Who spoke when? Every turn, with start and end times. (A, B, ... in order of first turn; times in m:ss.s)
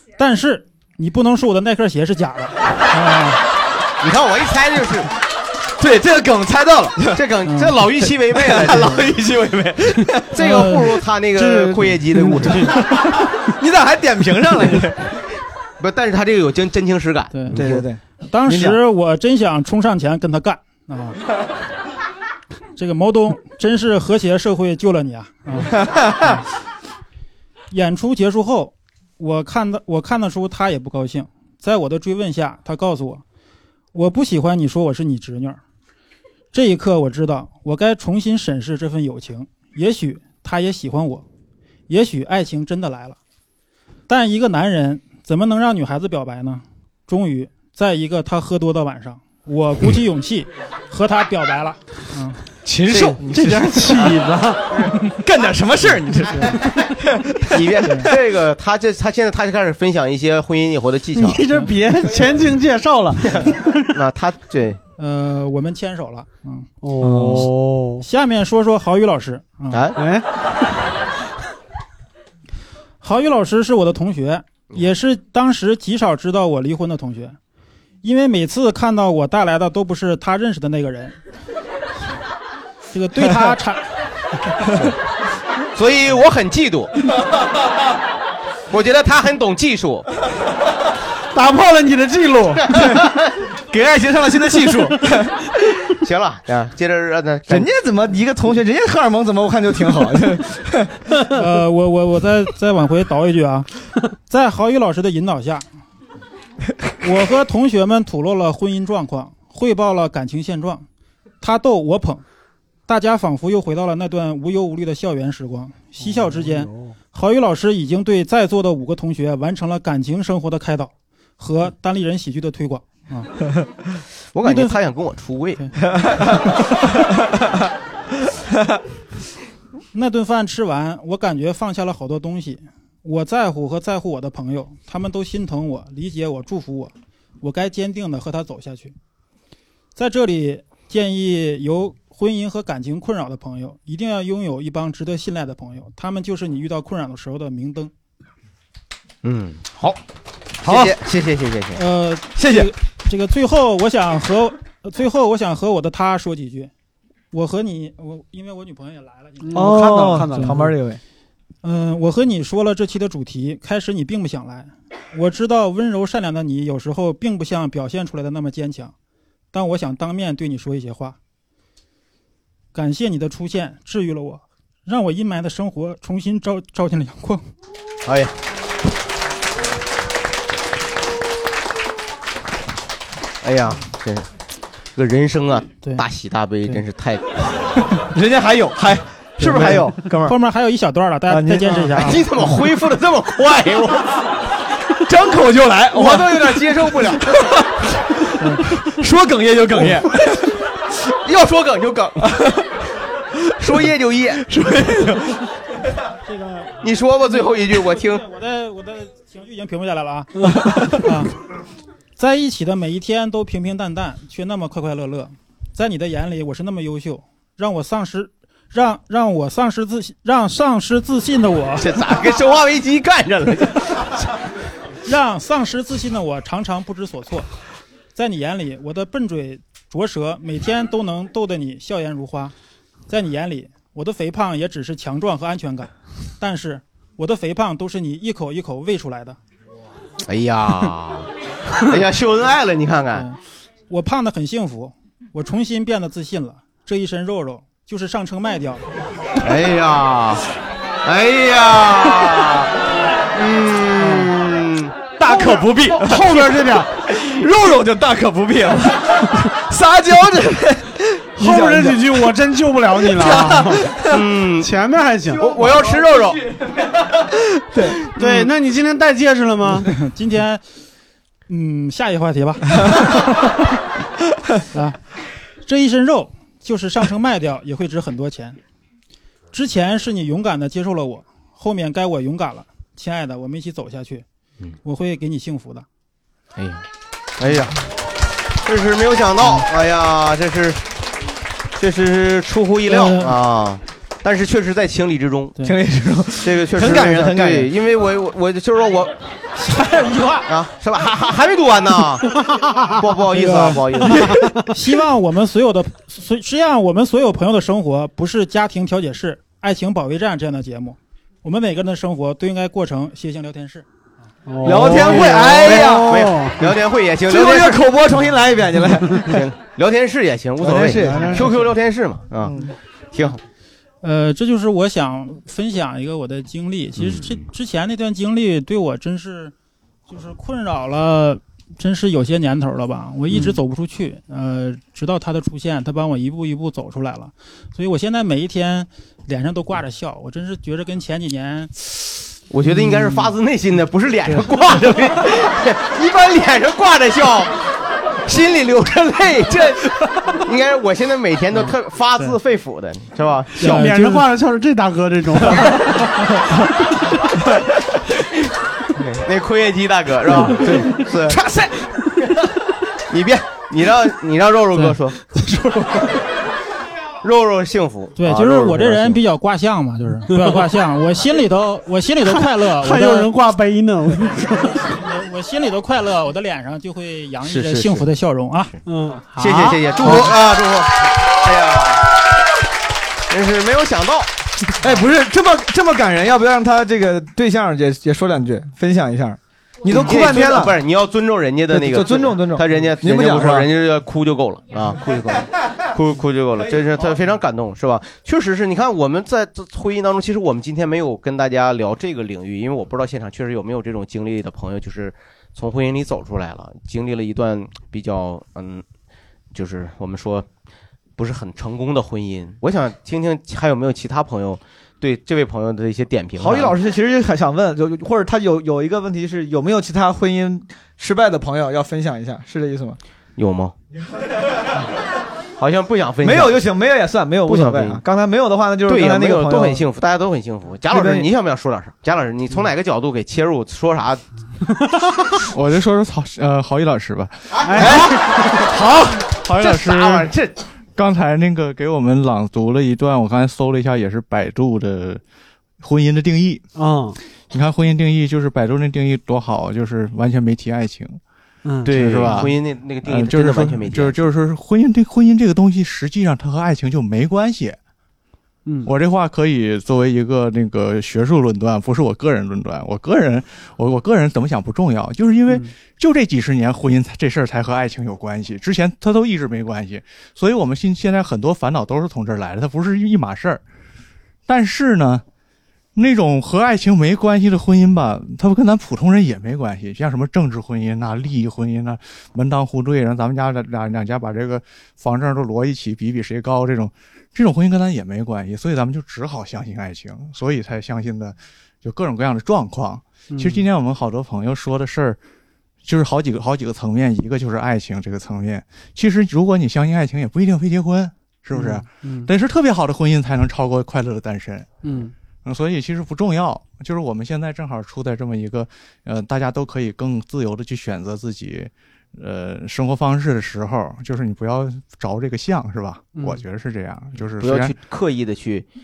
0:00.2-0:03.4 A
0:04.0-0:05.1 B
0:05.8-0:07.2 C
0:07.1-0:09.8 B
0:07.4-0:07.8 A
0:08.4-0:09.5 C
0:10.3-0:12.7 B
0:10.4-0:11.0 A
0:11.4-0:12.8 D
0:13.6-0:15.0 C
0:15.8-0:17.9 B
0:17.3-0:17.6 A
0:17.5-0:18.8 C
0:18.2-0:21.2 A
0:22.8-0:26.4 A
0:27.7-0:33.2 A
0:33.9-0:35.6 A
0:36.5-0:41.2 A
0:41.9-0:43.2 A
0:44.1-0:52.4 A
0:52.6-0:54.1 C
0:52.9-0:54.6 D
0:55.0-0:57.6 C
0:56.3-0:56.6 A
0:57.5-1:01.4 B
1:01.2-1:03.3 D
1:03.3-1:04.8 B
1:05.0-1:06.7 A
1:06.8-1:08.0 D
1:07.0-1:07.5 C
1:08.0-1:09.9 A
1:09.7-1:10.0 B
1:10.0-1:10.3 D
1:13.0-1:17.4 A
1:18.0-1:21.2 A
1:22.9-1:23.8 A
1:25.8-1:26.9 B
1:28.7-1:30.1 B
1:31.3-1:32.7 D
1:33.7-1:35.3 C
1:36.0-1:37.7 B
1:37.5-1:40.9 C
1:41.3-1:43.7 A
1:44.3-1:45.7 A
1:47.0-1:50.9 A
1:51.4-1:52.2 A
1:52.9-2:03.3 A
1:56.0-1:57.0 D
2:04.3-2:05.6 B
2:04.4-2:04.8 A
2:09.9-2:19.0 A
2:20.0-2:27.9 A
2:29.2-2:30.0 B
2:30.6-2:31.8 B
2:30.7-2:30.9 C
2:31.8-2:36.7 A
2:32.4-2:32.7 C
2:37.3-2:39.7 A
2:39.4-2:40.7 D
2:39.5-2:41.0 C
2:40.3-2:40.6 A
2:41.6-2:48.9 A
2:49.5-2:51.2 A
2:52.7-2:57.4 A
2:58.0-2:58.3 B
3:03.4-3:04.3 B
3:05.0-3:07.5 B
3:08.1-3:10.4 C
3:09.4-3:12.2 A
3:11.3-3:12.0 C
3:12.0-3:14.1 B
3:15.0-3:17.9 C
3:18.8-3:20.2 C
3:21.3-3:22.3 B
3:23.6-3:24.4 B
3:24.4-3:25.4 C
3:26.2-3:30.4 A
3:26.8-3:28.2 B
3:31.0-3:31.3 A
3:32.2-3:42.0 A
3:41.8-3:43.8 B
3:45.0-3:47.5 A
3:48.2-3:52.5 A
3:53.1-3:59.4 A
4:00.3-4:01.3 B
4:01.8-4:03.3 B
4:03.9-4:08.8 A
4:09.4-4:10.4 B
4:11.0-4:12.6 B
4:13.4-4:14.9 B
4:15.2-4:16.6 C
4:15.3-4:16.9 D
4:17.2-4:22.1 C
4:21.4-4:23.9 D
4:23.2-4:23.5 C
4:24.1-4:24.7 B
4:24.6-4:25.4 D
4:25.4-4:26.4 B
4:28.2-4:29.9 D
4:29.9-4:30.6 A
4:31.5-4:33.3 A
4:34.7-4:35.0 A
4:35.6-4:38.6 A
4:39.5-4:44.2 A
4:44.8-4:45.9 A
4:46.6-4:46.8 B
4:47.4-4:47.8 B
4:48.6-4:50.8 B
4:51.8-4:55.6 B
4:52.9-4:53.4 A
4:55.6-4:57.7 C
4:56.4-4:59.1 B
5:00.4-5:02.3 B
5:03.0-5:04.4 B
5:03.2-5:04.0 A
5:04.7-5:13.9 A
5:14.5-5:16.6 D
5:14.6-5:16.4 C
5:15.1-5:17.8 B
5:17.3-5:19.4 C
5:19.2-5:23.4 B
5:20.6-5:21.5 C
5:21.0-5:21.6 D
5:24.0-5:29.5 A
5:27.0-5:27.4 B
5:30.1-5:42.1 A
5:42.5-5:47.5 B
5:48.3-5:53.9 B
5:53.6-5:54.3 A
5:53.6-5:55.8 D
5:59.0-6:01.4 B
6:03.1-6:05.2 B
6:05.4-6:05.9 A
6:07.2-6:09.2 B
6:08.2-6:13.3 A
6:10.3-6:10.6 D
6:12.3-6:14.8 D
6:14.9-6:18.7 A
6:17.4-6:18.1 B
6:18.9-6:19.8 D
6:19.4-6:20.9 B
6:21.4-6:22.0 B
6:23.3-6:24.3 B
6:24.8-6:30.8 C
6:29.9-6:48.8 B
6:31.7-6:33.7 C
6:49.5-6:50.5 B
6:51.2-6:56.8 B
6:56.4-7:03.0 C
7:03.4-7:03.8 B
7:05.6-7:06.6 B
7:06.2-7:09.8 C
7:07.4-7:08.0 B
7:08.8-7:14.2 B
7:10.9-7:11.3 C
7:15.5-7:18.0 E
7:17.6-7:18.2 D
7:18.7-7:20.3 E
7:19.6-7:20.5 B
7:21.0-7:25.2 E
7:25.8-7:26.6 E
7:26.8-7:27.2 D
7:27.5-7:31.2 E
7:31.6-7:31.9 D
7:31.8-7:34.2 B
7:31.9-7:37.8 E
7:38.7-7:38.9 D
7:38.8-7:53.6 E
7:45.5-7:45.7 D
7:54.5-7:55.2 E
7:56.0-8:15.2 E
8:13.3-8:13.6 D
8:15.8-8:24.7 E
8:21.5-8:22.3 D
8:24.8-8:25.1 D
8:25.4-8:37.8 E
8:36.1-8:36.4 D
8:37.4-8:38.7 B